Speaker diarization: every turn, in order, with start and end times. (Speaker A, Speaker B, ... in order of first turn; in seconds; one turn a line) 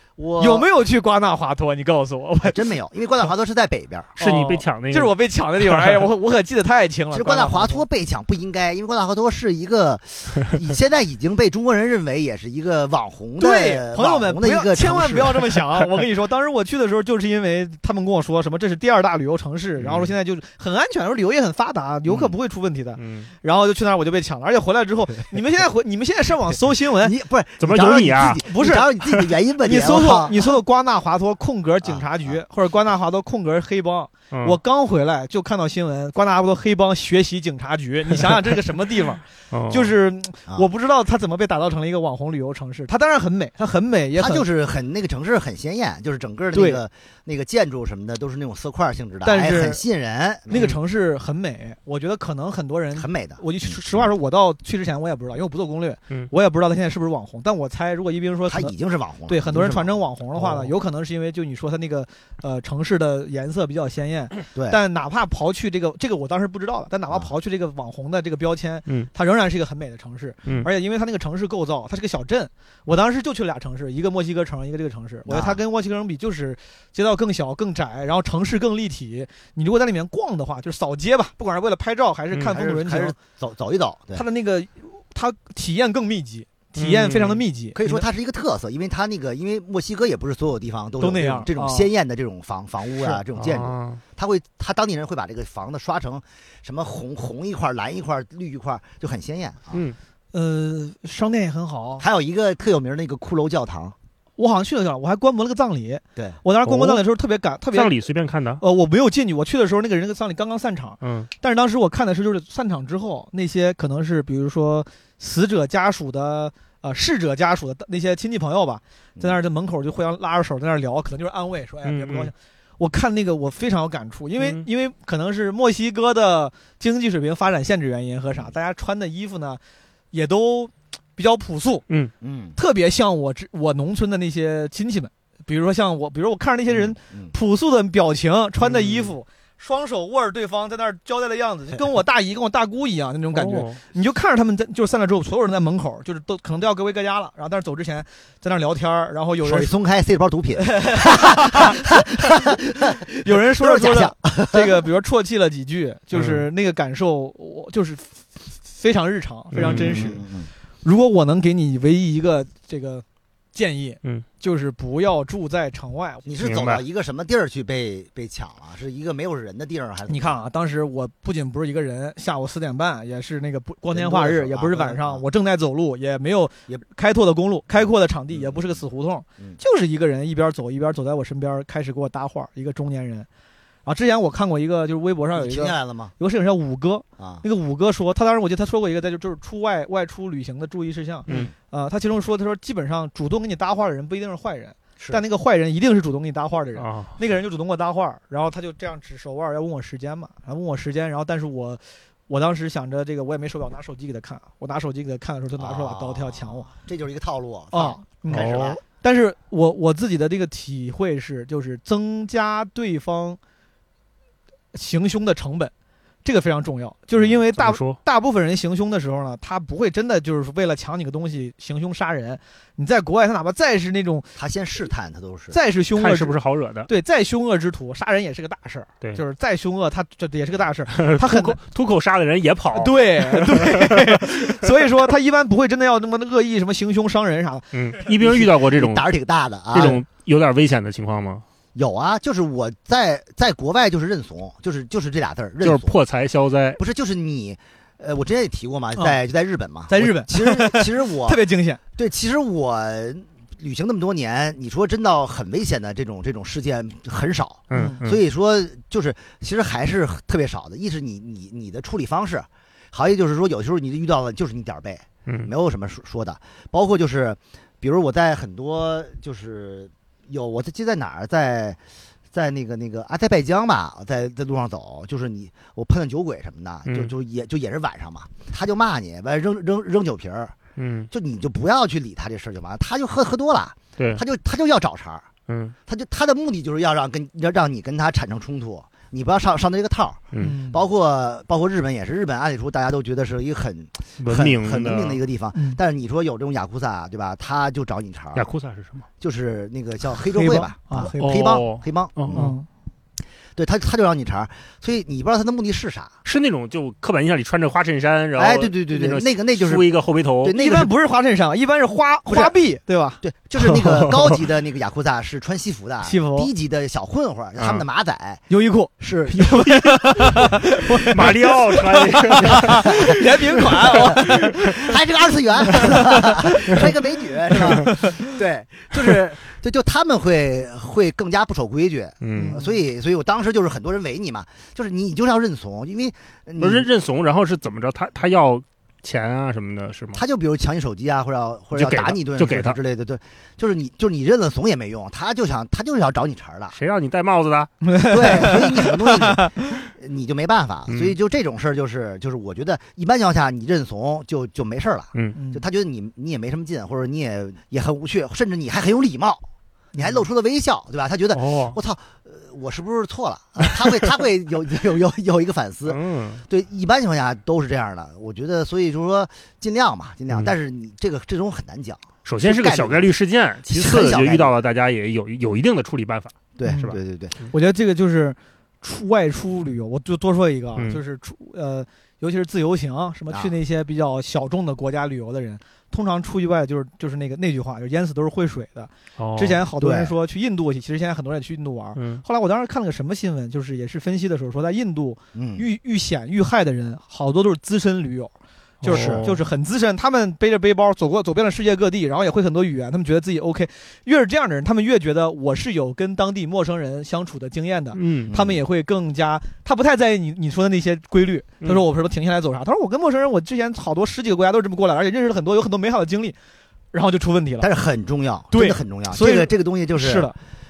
Speaker A: 0.2-0.7
Speaker B: 0.4-2.6
Speaker A: 2.4-4.2
Speaker C: 4.2-5.1
Speaker B: 4.2-7.8
Speaker C: 5.7-6.0
Speaker A: 7.1-15.6
Speaker B: 13.4-27.1
Speaker C: 19.8-20.1
Speaker A: 22.1-22.3
Speaker C: 23.0-23.3
Speaker A: 27.0-30.4
Speaker C: 27.6-28.4
Speaker B: 28.4-28.9
Speaker B: 29.6-44.5
Speaker A: 31.8-32.4
Speaker C: 34.3-34.6
Speaker C: 39.5-39.9
Speaker A: 44.2-50.7
Speaker B: 46.5-46.8
Speaker B: 49.2-49.8
Speaker B: 50.5-58.7
Speaker A: 53.0-54.0
Speaker A: 58.5-60.7
Speaker B: 59.3-83.2
Speaker A: 64.5-64.8
Speaker A: 75.3-75.6
Speaker A: 82.4-84.2
Speaker B: 84.1-88.0
Speaker C: 86.8-87.4
Speaker A: 87.8-99.8
Speaker B: 91.0-91.9
Speaker C: 93.3-94.0
Speaker B: 100.3-102.0
Speaker A: 102.0-104.0
Speaker B: 104.4-108.0
Speaker C: 106.7-107.0
Speaker C: 107.7-108.6
Speaker B: 108.6-129.6
Speaker C: 111.0-111.3
Speaker C: 121.8-122.3
Speaker C: 124.4-124.7
Speaker B: 130.1-131.8
Speaker A: 132.2-132.6
Speaker B: 132.6-149.7
Speaker A: 137.1-137.3
Speaker C: 138.6-139.1
Speaker C: 143.3-143.8
Speaker A: 149.4-154.8
Speaker B: 150.7-160.2
Speaker C: 156.2-156.4
Speaker C: 159.5-160.2
Speaker A: 159.6-160.5
Speaker B: 160.8-166.3
Speaker A: 166.3-170.4
Speaker C: 166.4-166.8
Speaker B: 170.1-183.3
Speaker A: 173.9-175.2
Speaker A: 178.3-178.8
Speaker B: 183.9-206.7
Speaker A: 185.4-186.1
Speaker A: 187.2-187.4
Speaker A: 191.3-191.5
Speaker C: 196.8-197.2
Speaker A: 205.6-208.8
Speaker B: 207.7-213.4
Speaker C: 208.3-208.8
Speaker B: 214.7-215.7
Speaker B: 216.2-224.3
Speaker C: 217.2-218.0
Speaker A: 224.4-225.6
Speaker B: 225.5-231.6
Speaker C: 226.0-226.9
Speaker C: 230.9-234.5
Speaker B: 232.8-237.7
Speaker C: 237.7-239.1
Speaker A: 238.2-240.0
Speaker C: 239.7-241.4
Speaker A: 241.8-246.0
Speaker C: 245.6-246.8
Speaker A: 246.8-251.4
Speaker B: 249.9-251.8
Speaker A: 252.0-271.8
Speaker C: 257.7-258.2
Speaker B: 257.7-258.0
Speaker A: 272.3-280.6
Speaker C: 276.9-277.1
Speaker C: 280.8-281.1
Speaker A: 281.1-285.3
Speaker C: 285.5-285.8
Speaker A: 285.9-298.5
Speaker B: 290.4-290.8
Speaker C: 294.2-295.2
Speaker B: 295.5-295.8
Speaker C: 298.4-299.1
Speaker A: 299.2-302.6
Speaker B: 300.2-301.5
Speaker C: 301.2-302.5
Speaker B: 302.3-302.7
Speaker A: 303.6-306.1
Speaker C: 306.2-310.6
Speaker A: 308.4-309.9
Speaker A: 310.4-310.9
Speaker B: 310.5-313.2
Speaker A: 312.3-312.5
Speaker A: 313.2-318.4
Speaker C: 313.6-314.4
Speaker B: 316.0-316.5
Speaker C: 317.6-317.8
Speaker B: 318.5-318.9
Speaker A: 319.0-319.7
Speaker C: 319.4-322.9
Speaker B: 319.4-324.9
Speaker A: 322.4-336.9
Speaker B: 325.7-326.8
Speaker B: 327.7-328.2
Speaker C: 332.2-332.6
Speaker B: 332.3-332.8
Speaker C: 336.6-340.2
Speaker A: 340.1-346.8
Speaker C: 341.8-342.8
Speaker C: 346.7-348.6
Speaker B: 347.8-349.7
Speaker A: 348.1-373.1
Speaker C: 350.9-351.1
Speaker B: 355.4-355.6
Speaker C: 361.3-361.8
Speaker C: 365.9-366.4
Speaker C: 372.2-377.0
Speaker A: 373.7-374.6
Speaker A: 376.6-377.4
Speaker B: 376.6-377.0
Speaker B: 377.5-416.4
Speaker C: 389.2-389.6
Speaker A: 389.8-390.1
Speaker C: 392.0-392.2
Speaker A: 395.3-395.6
Speaker C: 398.8-399.4
Speaker A: 398.9-399.2
Speaker C: 407.9-408.3
Speaker A: 408.3-408.6
Speaker B: 416.9-417.7
Speaker A: 417.6-420.3
Speaker B: 418.5-420.4